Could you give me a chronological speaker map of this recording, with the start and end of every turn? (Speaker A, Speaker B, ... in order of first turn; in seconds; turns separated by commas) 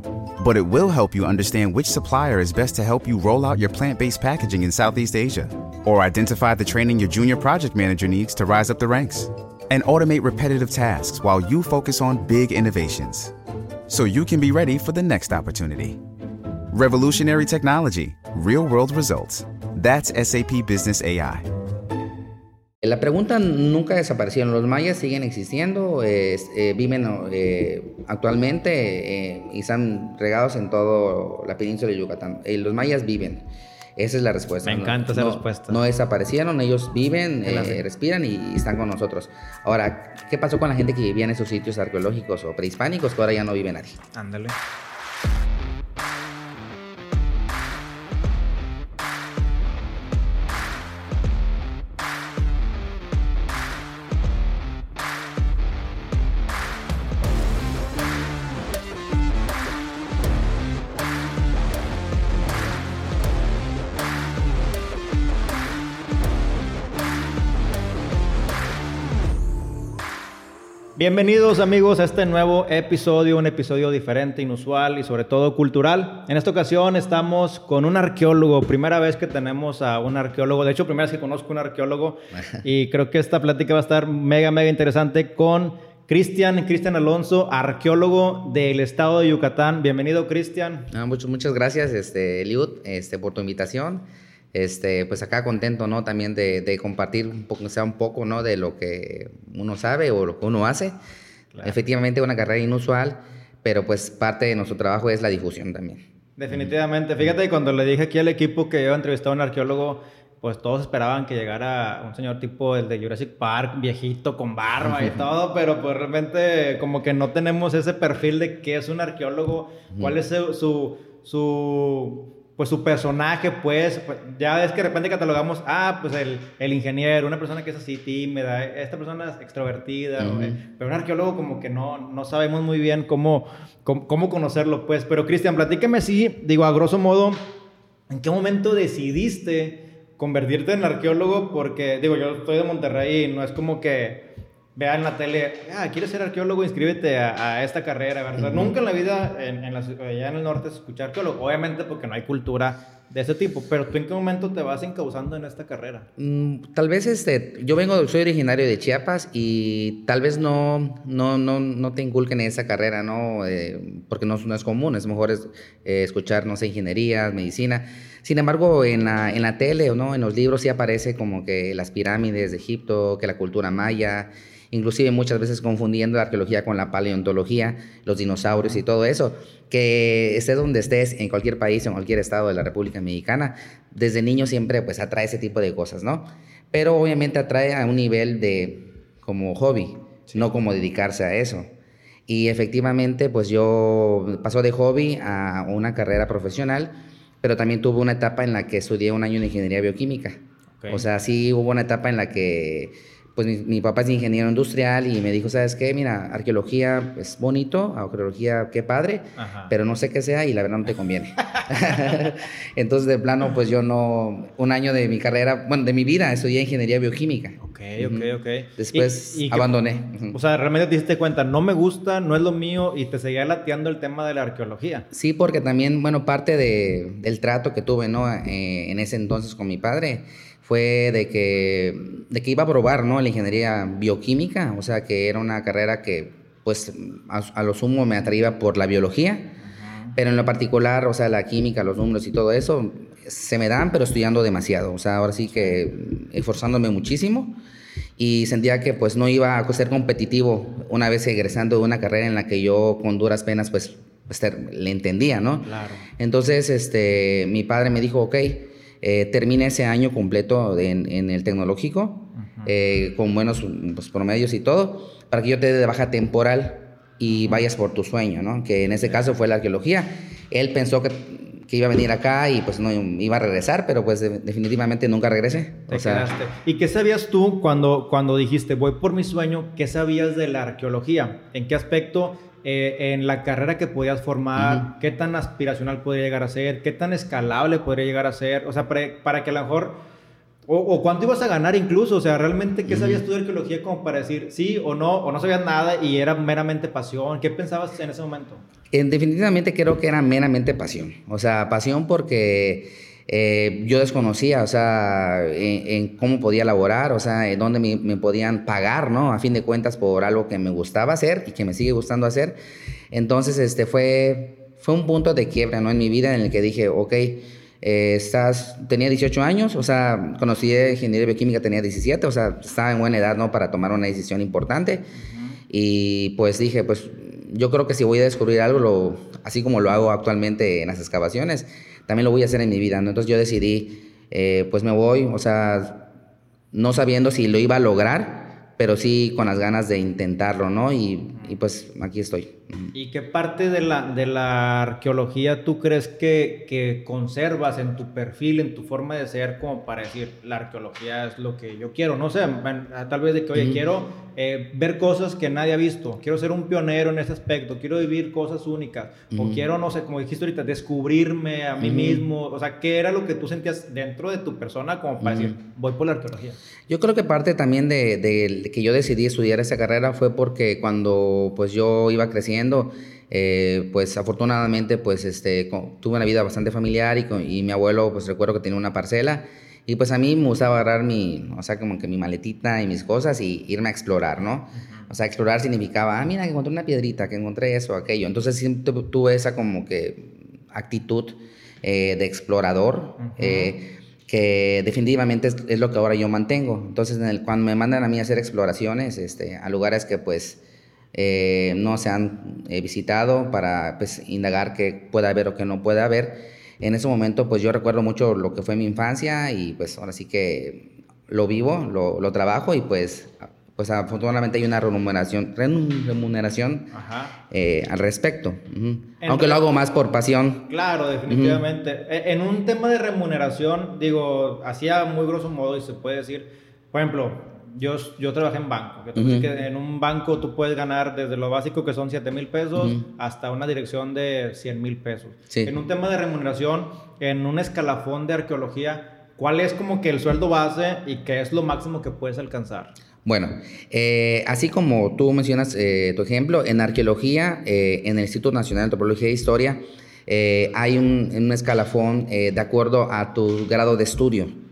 Speaker A: 0.4-13.3, Speaker A: 13.9-16.0, Speaker A: 16.7-21.4, Speaker B: 22.8-33.5, Speaker B: 34.0-44.0, Speaker C: 34.6-35.8, Speaker C: 37.4-37.8, Speaker C: 44.1-44.5, Speaker C: 71.0-90.9, Speaker B: 82.3-82.6, Speaker B: 90.9-101.0, Speaker B: 101.6-106.7, Speaker C: 106.4-137.4, Speaker B: 114.8-115.2, Speaker B: 119.9-120.2, Speaker B: 130.2-130.6, Speaker C: 138.1-156.1, Speaker B: 148.4-148.7, Speaker B: 156.2-191.7, Speaker B: 192.3-220.4, Speaker C: 209.4-209.7, Speaker C: 217.6-219.7, Speaker C: 220.3-225.1, Speaker B: 225.1-239.5, Speaker C: 239.6-240.2, Speaker B: 240.1-247.6, Speaker B: 248.2-276.3, Speaker C: 255.6-256.1, Speaker C: 262.4-262.7, Speaker C: 267.3-267.6, Speaker C: 275.9-290.0, Speaker B: 284.6-284.9, Speaker C: 290.7-298.6, Speaker B: 292.9-293.2, Speaker B: 298.9-312.6, Speaker B: 313.1-325.1, Speaker C: 325.2-325.6, Speaker B: 325.7-336.1, Speaker B: 336.7-342.9, Speaker C: 342.9-366.6, Speaker B: 353.5-353.8, Speaker B: 359.3-359.6, Speaker B: 361.8-362.3, Speaker B: 365.2-365.6, Speaker B: 366.9-400.6, Speaker C: 384.7-385.1, Speaker C: 393.2-393.7, Speaker B: 401.1-416.9, Speaker C: 416.9-417.4, Speaker B: 417.5-420.7, Speaker C: 419.2-419.6, Speaker C: 420.7-442.9, Speaker B: 421.3-421.6, Speaker B: 429.1-429.5, Speaker B: 432.8-433.1, Speaker B: 443.2-454.6